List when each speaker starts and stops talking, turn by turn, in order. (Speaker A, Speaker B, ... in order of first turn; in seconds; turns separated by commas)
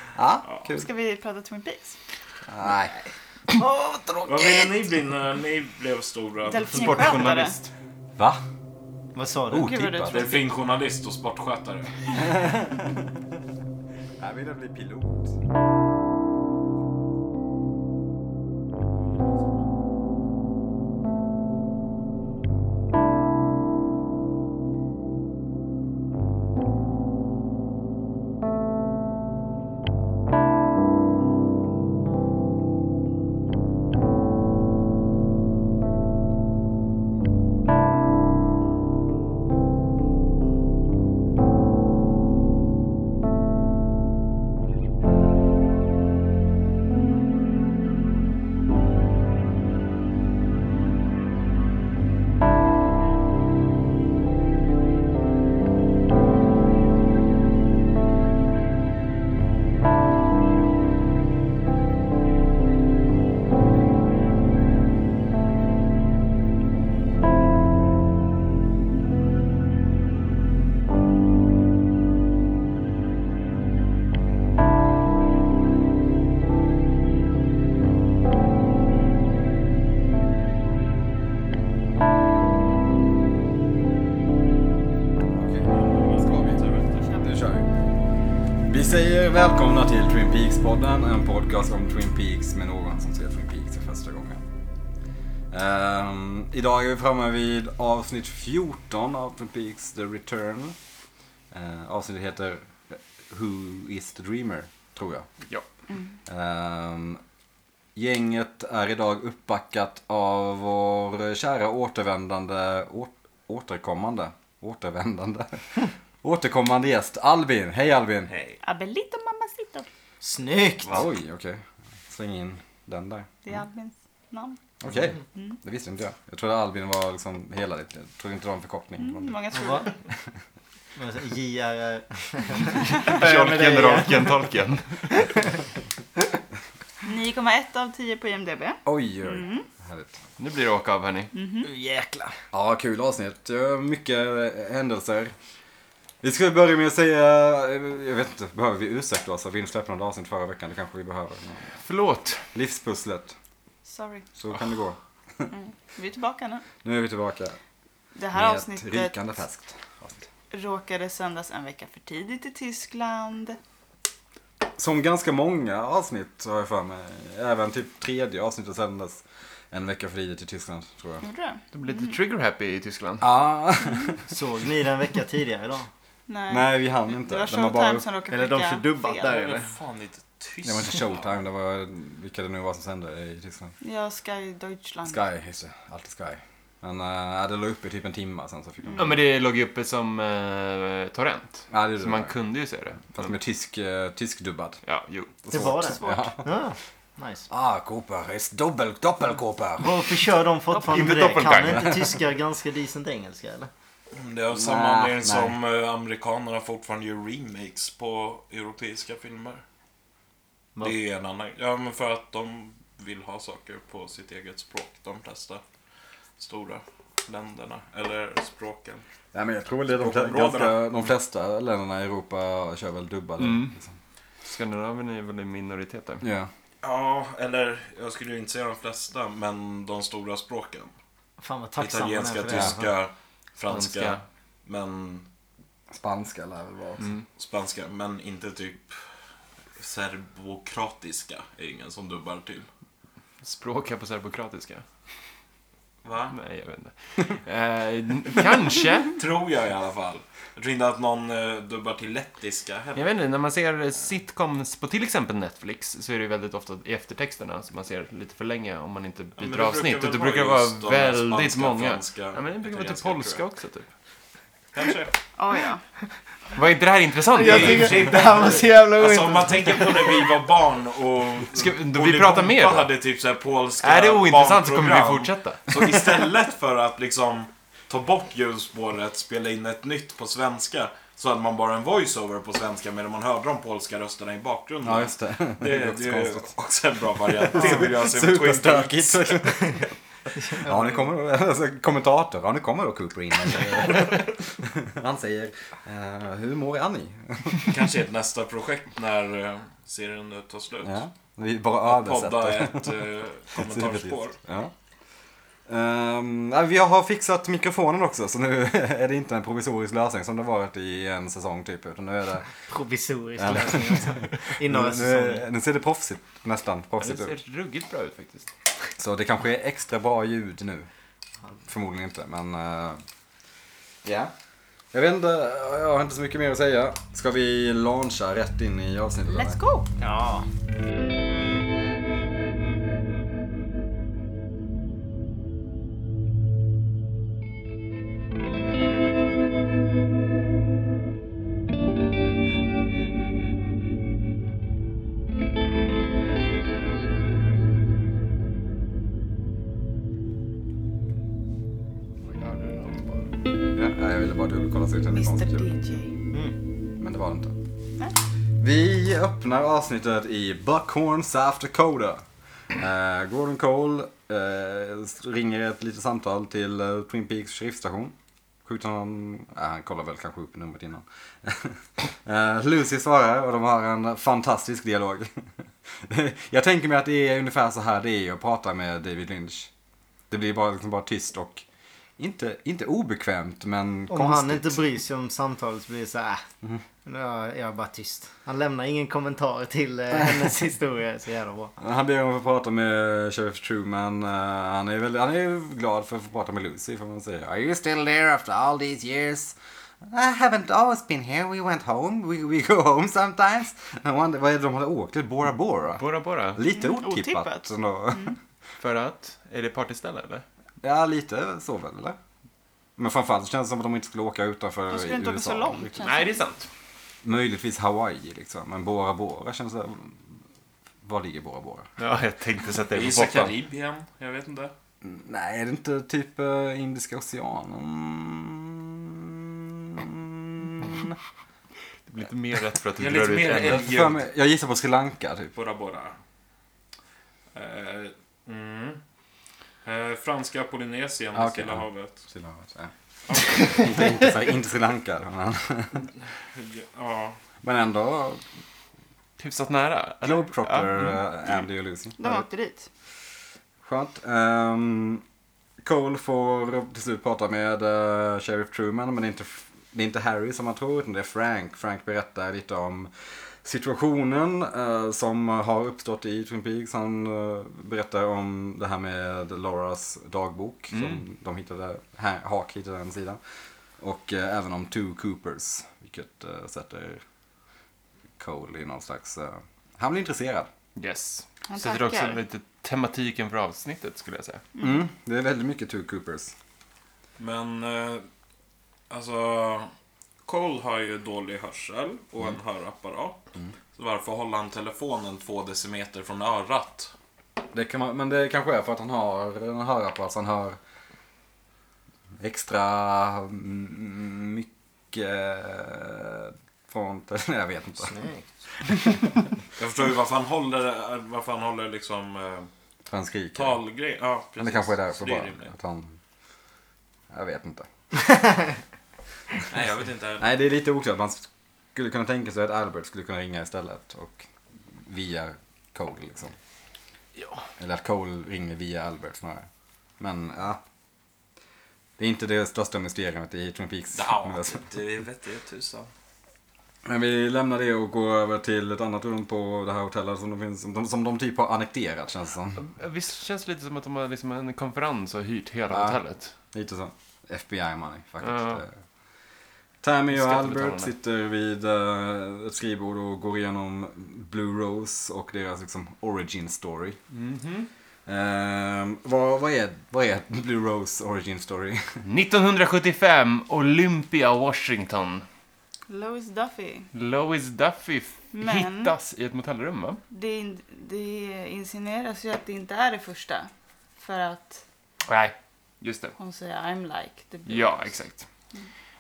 Speaker A: 0.1-0.9, Speaker B: 0.7-2.0, Speaker A: 2.5-3.0, Speaker A: 3.5-4.7, Speaker C: 4.3-7.0, Speaker B: 6.5-7.6, Speaker D: 6.7-7.7, Speaker A: 8.2-8.4, Speaker E: 9.2-9.8, Speaker A: 9.5-10.3, Speaker B: 9.5-10.4, Speaker C: 10.1-12.3, Speaker A: 12.1-13.2, Speaker A: 14.2-15.4, Speaker A: 85.3-86.6, Speaker C: 85.7-87.1, Speaker A: 87.2-87.7, Speaker A: 88.7-94.4, Speaker A: 95.5-100.8, Speaker A: 101.5-105.3, Speaker B: 105.9-106.2, Speaker A: 106.3-107.2, Speaker A: 108.0-118.3, Speaker C: 118.3-118.6, Speaker B: 118.6-119.9, Speaker E: 120.2-121.0, Speaker A: 120.9-123.3, Speaker B: 123.4-124.6, Speaker A: 124.8-129.4, Speaker B: 129.0-129.9, Speaker E: 129.5-129.9, Speaker E: 131.0-134.4, Speaker D: 133.0-135.3, Speaker B: 137.1-139.7, Speaker A: 138.9-140.2, Speaker D: 140.4-141.3, Speaker B: 141.3-141.7, Speaker E: 141.6-142.3, Speaker A: 142.5-145.3, Speaker A: 146.2-151.7, Speaker D: 151.8-152.4, Speaker A: 152.5-153.3, Speaker B: 153.8-154.3, Speaker A: 154.4-155.5, Speaker B: 155.5-156.7, Speaker A: 156.8-157.6, Speaker B: 158.2-159.1, Speaker A: 158.3-160.3, Speaker B: 160.5-163.6, Speaker A: 164.8-171.2, Speaker B: 171.2-172.2, Speaker D: 171.7-173.3, Speaker A: 173.2-174.2, Speaker B: 173.8-174.2, Speaker E: 174.3-175.9, Speaker B: 176.3-179.4, Speaker A: 176.5-178.1, Speaker E: 178.3-179.7, Speaker C: 179.4-181.4, Speaker A: 180.6-183.7, Speaker B: 183.8-185.2, Speaker A: 185.1-189.2, Speaker B: 188.8-189.1, Speaker D: 189.0-193.4, Speaker A: 191.7-192.3, Speaker A: 193.1-194.8, Speaker D: 194.8-195.3, Speaker A: 195.5-196.4, Speaker E: 195.5-197.5, Speaker B: 195.9-196.3, Speaker A: 197.5-200.1, Speaker E: 199.8-203.7, Speaker D: 200.7-202.0, Speaker A: 201.5-202.0, Speaker C: 204.2-209.6, Speaker A: 204.5-205.6, Speaker C: 210.8-215.6, Speaker C: 216.4-219.0, Speaker A: 219.3-223.9, Speaker C: 220.0-220.8, Speaker D: 223.4-223.8, Speaker D: 224.4-226.2, Speaker A: 226.2-226.5, Speaker C: 226.8-230.9, Speaker E: 231.4-232.9, Speaker C: 231.8-235.3, Speaker D: 233.7-234.2, Speaker A: 235.9-237.1, Speaker D: 237.0-237.2, Speaker C: 237.3-239.0, Speaker C: 239.8-242.7, Speaker D: 243.4-244.8, Speaker C: 246.0-246.4, Speaker D: 246.3-249.1, Speaker C: 249.2-253.1, Speaker D: 253.0-263.9, Speaker C: 259.4-263.4, Speaker C: 264.7-265.1, Speaker B: 265.4-265.8, Speaker D: 266.6-268.5, Speaker E: 267.3-270.3, Speaker C: 267.4-289.6, Speaker D: 271.6-272.9, Speaker D: 273.8-275.8, Speaker A: 284.8-286.5, Speaker A: 287.5-289.9, Speaker E: 290.4-291.0, Speaker A: 290.5-297.7, Speaker C: 297.6-301.0, Speaker A: 300.9-304.7, Speaker C: 301.9-304.4, Speaker A: 305.7-312.5, Speaker E: 312.7-315.4, Speaker A: 313.4-317.4, Speaker D: 317.0-318.6, Speaker A: 319.0-320.9, Speaker A: 321.7-323.0, Speaker A: 324.1-324.3, Speaker A: 324.9-329.6, Speaker B: 329.3-329.9, Speaker E: 330.0-330.5, Speaker D: 352.2-353.3, Speaker A: 353.7-355.7, Speaker B: 355.1-356.2, Speaker E: 356.3-356.6, Speaker A: 357.0-357.5, Speaker A: 358.6-362.2, Speaker A: 362.8-379.7, Speaker A: 380.3-381.6, Speaker A: 382.2-384.8, Speaker E: 384.1-386.4, Speaker E: 387.1-391.8, Speaker A: 390.1-390.5, Speaker A: 391.8-408.4, Speaker D: 406.0-406.6, Speaker B: 406.7-408.4, Speaker D: 408.8-410.4, Speaker A: 410.8-412.2, Speaker A: 413.0-416.0, Speaker B: 414.9-416.3, Speaker D: 416.0-416.7, Speaker A: 417.2-420.2, Speaker A: 421.0-421.9, Speaker D: 422.0-423.5, Speaker C: 422.9-424.7, Speaker A: 425.0-431.2, Speaker D: 432.1-433.8, Speaker C: 433.0-434.2, Speaker A: 433.6-435.5, Speaker C: 435.6-436.2, Speaker C: 437.5-439.0, Speaker C: 439.9-442.2, Speaker A: 441.3-442.9, Speaker C: 443.3-443.7, Speaker A: 443.5-446.1, Speaker C: 446.5-447.4, Speaker A: 447.6-448.4, Speaker D: 449.4-451.2, Speaker A: 450.2-452.4, Speaker B: 452.2-452.9, Speaker A: 453.8-455.2, Speaker A: 455.8-473.4, Speaker D: 470.9-471.2, Speaker A: 474.0-477.2, Speaker A: 478.4-480.7, Speaker D: 481.0-484.6, Speaker B: 481.7-482.4, Speaker B: 484.8-485.0, Speaker A: 484.8-486.5, Speaker C: 487.4-488.3, Speaker C: 489.1-489.9, Speaker C: 490.4-493.4, Speaker C: 493.9-497.1, Speaker A: 497.7-500.8, Speaker A: 502.4-508.1, Speaker E: 508.1-508.7, Speaker A: 508.8-509.5, Speaker C: 509.8-512.7, Speaker A: 513.1-513.8, Speaker C: 513.5-515.7, Speaker A: 514.6-516.2, Speaker A: 517.3-517.9, Speaker C: 519.7-520.5, Speaker A: 520.4-526.5, Speaker A: 527.8-529.7, Speaker A: 530.2-530.8, Speaker A: 532.2-534.8, Speaker C: 534.1-536.1, Speaker A: 537.0-542.8, Speaker D: 542.8-546.5, Speaker A: 545.9-548.9, Speaker D: 548.4-548.8, Speaker A: 550.0-557.2, Speaker D: 550.3-551.1, Speaker D: 557.3-557.9, Speaker A: 558.3-562.2, Speaker D: 562.2-565.5, Speaker B: 566.1-567.1, Speaker D: 567.1-570.2, Speaker B: 568.5-569.1, Speaker B: 570.3-574.8, Speaker D: 575.3-576.4, Speaker B: 576.4-578.2, Speaker D: 577.7-578.5